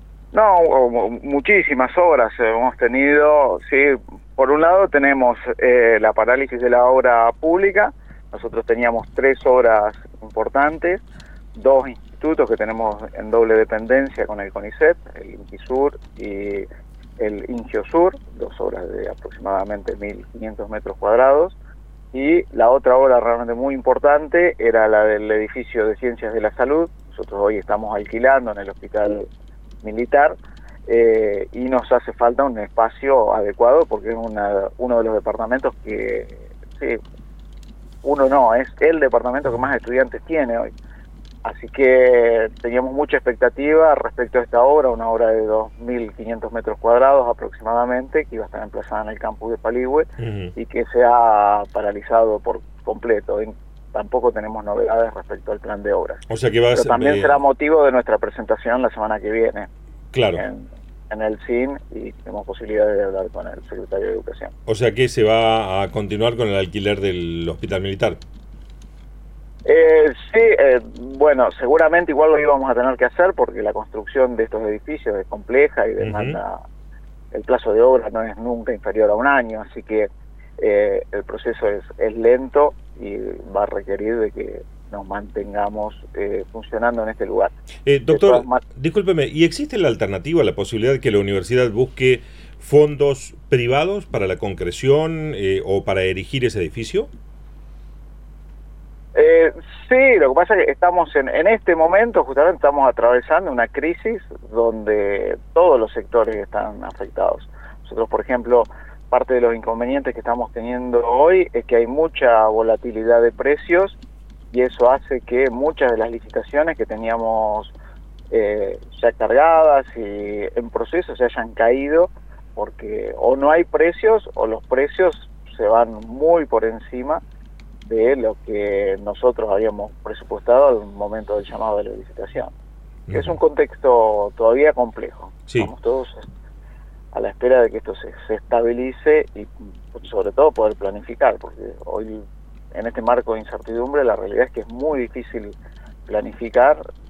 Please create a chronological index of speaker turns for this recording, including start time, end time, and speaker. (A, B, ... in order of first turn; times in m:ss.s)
0:00.3-0:11.0 A
0:11.6-0:16.7 A
0:17.2-0:21.6 A
0:22.1-0:29.3 A
0:29.8-0:30.4 A
0:30.9-0:37.0 A
0:38.0-0:40.7 A
0:41.4-0:56.2 A
0:50.2-0:50.5 B
0:56.3-0:57.4 B
0:56.7-0:59.7 A
1:00.1-1:00.4 B
1:00.3-1:04.5 A
1:04.7-1:08.2 B
1:09.6-1:16.6 A
1:16.0-1:16.4 B
1:17.3-1:27.5 A
1:27.8-1:37.1 B
1:28.1-1:28.6 A
1:39.2-1:54.0 A
1:54.5-1:57.7 A
1:58.3-2:07.2 A
2:07.9-2:12.5 A
2:13.1-2:13.3 B
2:13.1-2:16.3 A
2:17.1-2:25.5 A
2:26.1-2:26.8 A